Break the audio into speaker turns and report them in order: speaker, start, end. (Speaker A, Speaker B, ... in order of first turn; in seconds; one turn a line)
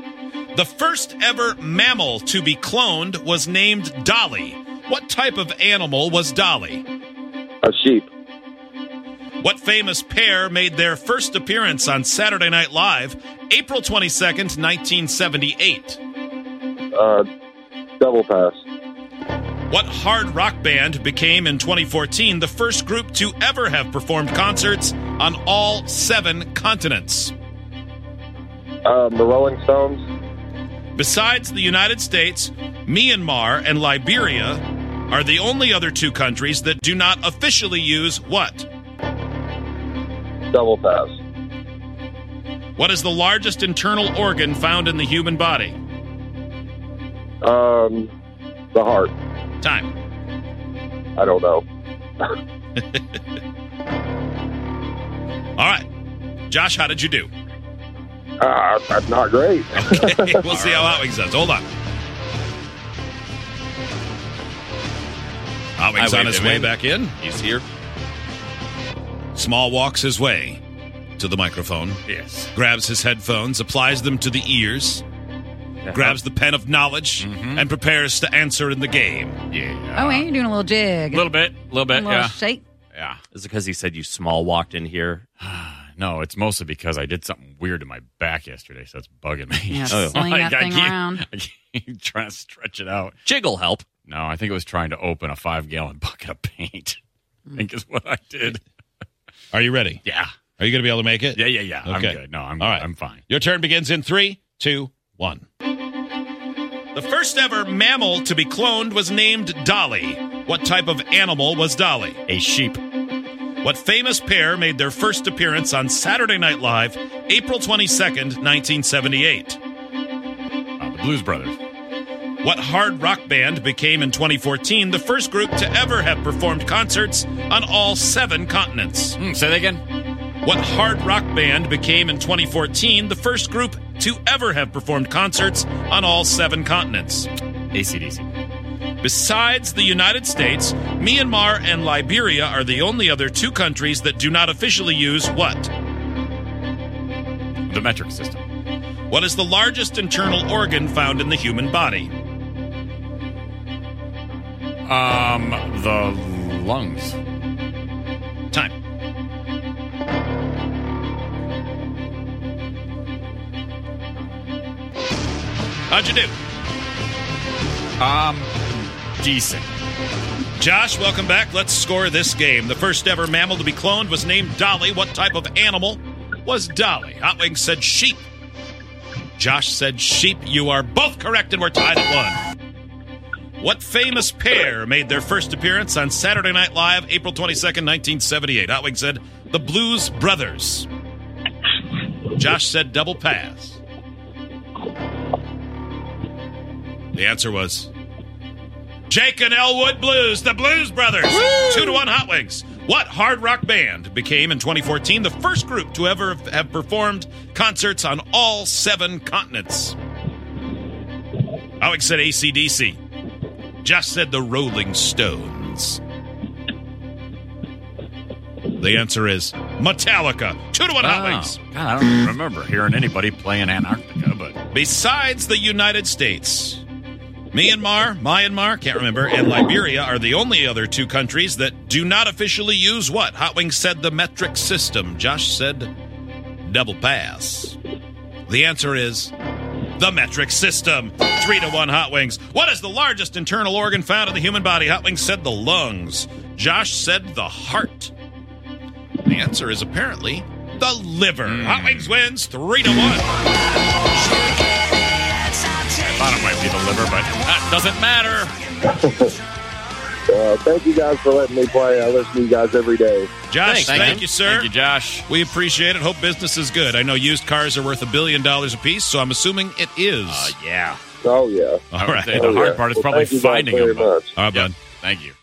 Speaker A: 0.5-6.8
Speaker B: 7.6-8.1
Speaker A: 9.4-16.0
Speaker B: 16.9-17.2
Speaker B: 18.0-18.6
Speaker A: 19.7-27.3
Speaker B: 28.8-30.0
Speaker A: 30.9-38.7
Speaker B: 40.5-41.2
Speaker A: 42.8-45.8
Speaker B: 47.4-48.1
Speaker B: 48.7-49.1
Speaker A: 49.6-49.9
Speaker B: 51.2-51.6
Speaker A: 55.6-55.9
Speaker A: 56.5-57.3
Speaker B: 58.4-60.5
Speaker A: 59.8-61.6
Speaker C: 60.5-61.0
Speaker A: 65.8-67.2
Speaker D: 66.0-66.6
Speaker C: 67.2-67.5
Speaker A: 69.3-70.6
Speaker A: 71.2-72.0
Speaker C: 72.1-72.5
Speaker A: 72.5-75.0
Speaker D: 75.8-76.2
Speaker A: 75.9-79.4
Speaker C: 77.2-77.6
Speaker C: 79.5-80.3
Speaker E: 79.9-81.3
Speaker C: 81.1-82.4
Speaker E: 81.8-82.6
Speaker C: 83.0-83.2
Speaker D: 83.3-85.2
Speaker C: 85.4-93.2
Speaker E: 89.7-91.2
Speaker D: 89.9-90.2
Speaker D: 93.3-93.9
Speaker C: 93.9-97.0
Speaker C: 97.5-98.6
Speaker A: 99.5-100.0
Speaker C: 100.0-100.3
Speaker A: 100.6-105.4
Speaker C: 101.3-103.2
Speaker A: 106.9-112.2
Speaker C: 112.3-112.8
Speaker A: 113.6-119.6
Speaker C: 120.8-121.6
Speaker A: 122.4-129.2
Speaker C: 129.2-129.8
Speaker A: 130.4-137.3
Speaker C: 137.7-138.3
Speaker A: 139.0-145.7
Speaker C: 147.7-148.4
Speaker A: 149.1-152.1
Speaker C: 154.9-157.2
Speaker A: 165.9-166.3
Speaker C: 168.0-168.5
Speaker C: 169.2-169.7
Speaker A: 170.6-178.2
Speaker A: 179.4-182.4
Speaker A: 183.6-190.9
Speaker A: 192.3-193.8
Speaker A: 197.1-197.9
Speaker A: 199.1-209.9
Speaker A: 211.8-213.0
Speaker A: 213.8-216.0
Speaker A: 218.8-221.6
Speaker C: 221.0-224.6
Speaker A: 224.7-226.8
Speaker A: 227.5-235.9
Speaker A: 236.6-237.8
Speaker A: 238.5-239.3
Speaker A: 240.0-248.1
Speaker A: 249.2-253.2
Speaker C: 251.4-252.1
Speaker C: 256.0-258.5
Speaker B: 260.3-263.3
Speaker A: 263.5-264.7
Speaker C: 263.6-265.2
Speaker A: 265.3-270.5
Speaker C: 270.3-271.0
Speaker B: 271.2-274.3
Speaker A: 271.9-272.5
Speaker C: 271.9-275.3
Speaker A: 274.3-274.8